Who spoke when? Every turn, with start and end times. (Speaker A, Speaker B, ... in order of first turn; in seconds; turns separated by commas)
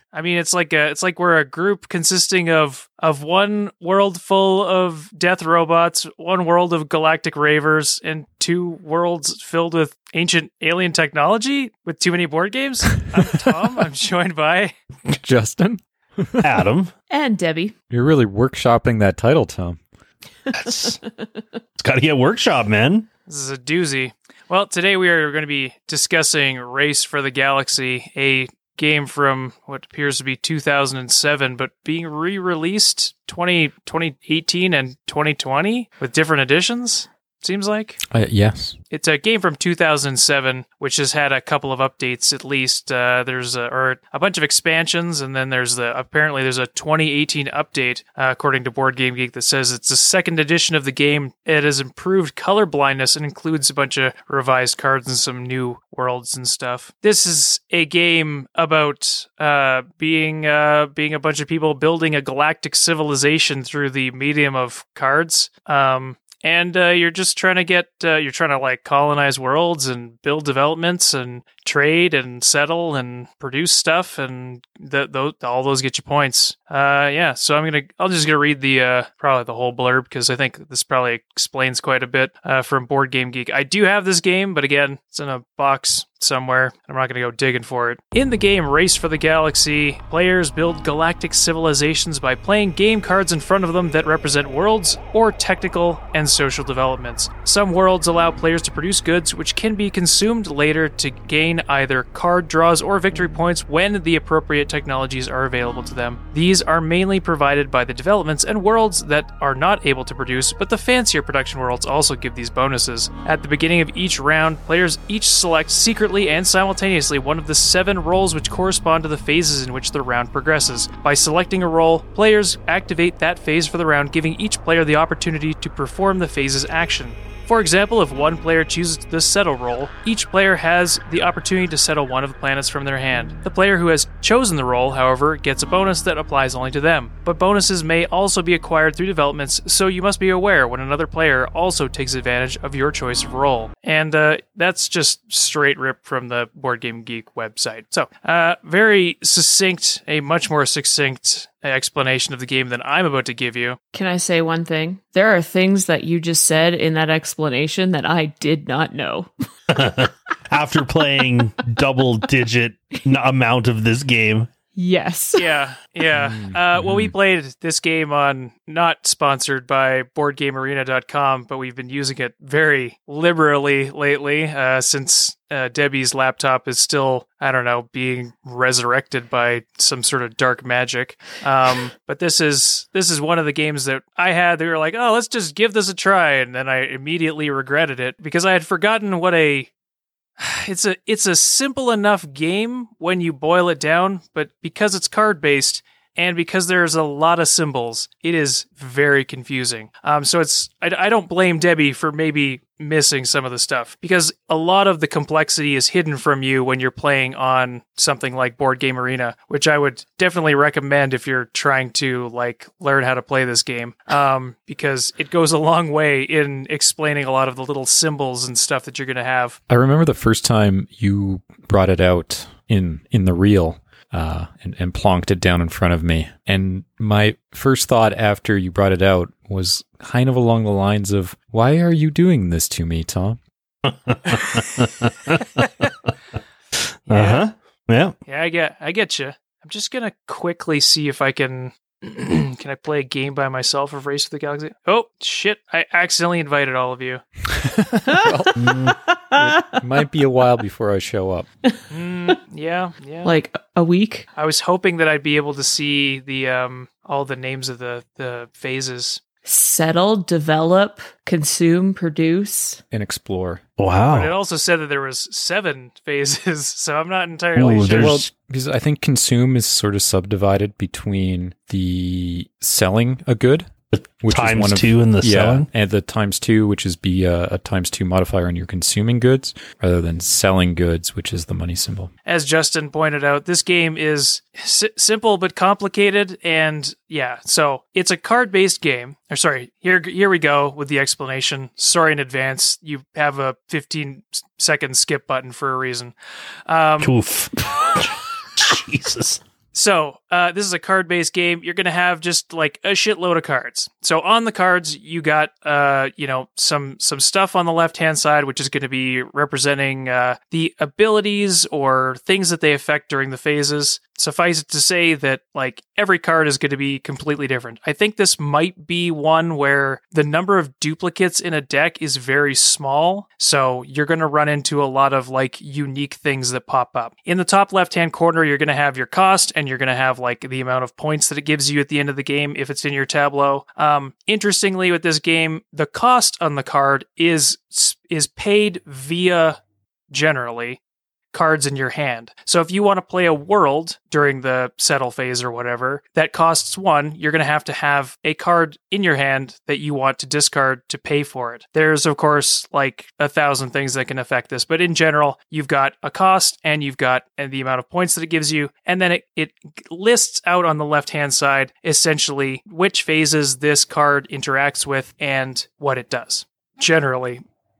Speaker A: 0.1-14.7, Speaker B: 15.1-16.6, Speaker C: 16.4-16.9, Speaker D: 17.1-17.7, Speaker B: 17.9-19.8, Speaker D: 20.5-21.4, Speaker C: 20.5-21.0, Speaker C: 21.8-23.1, Speaker A: 23.3-38.0, Speaker B: 38.1-38.8, Speaker A: 38.9-153.8, Speaker D: 153.9-159.8, Speaker C: 159.7-164.5, Speaker D: 164.7-165.4, Speaker A: 165.3-189.7, Speaker B: 166.1-167.1, Speaker A: 190.4-219.6, Speaker B: 219.7-233.4, Speaker C: 233.8-235.6, Speaker C: 237.1-238.1, Speaker A: 237.1-237.4, Speaker A: 238.2-247.2, Speaker D: 248.1-249.7, Speaker B: 248.1-251.5, Speaker C: 248.6-248.9, Speaker A: 251.9-253.3, Speaker D: 253.2-254.2, Speaker A: 254.3-259.2, Speaker D: 259.4-262.8, Speaker B: 262.9-263.6, Speaker C: 263.8-264.3, Speaker A: 264.1-268.2, Speaker C: 267.6-268.2, Speaker B: 267.9-273.7, Speaker B: 274.2-282.1, Speaker C: 274.3-275.7, Speaker A: 282.2-296.1, Speaker A: 296.7-297.1, Speaker C: 297.0-299.4, Speaker A: 299.7-339.6, Speaker A: 340.1-340.8, Speaker A: 341.3-367.4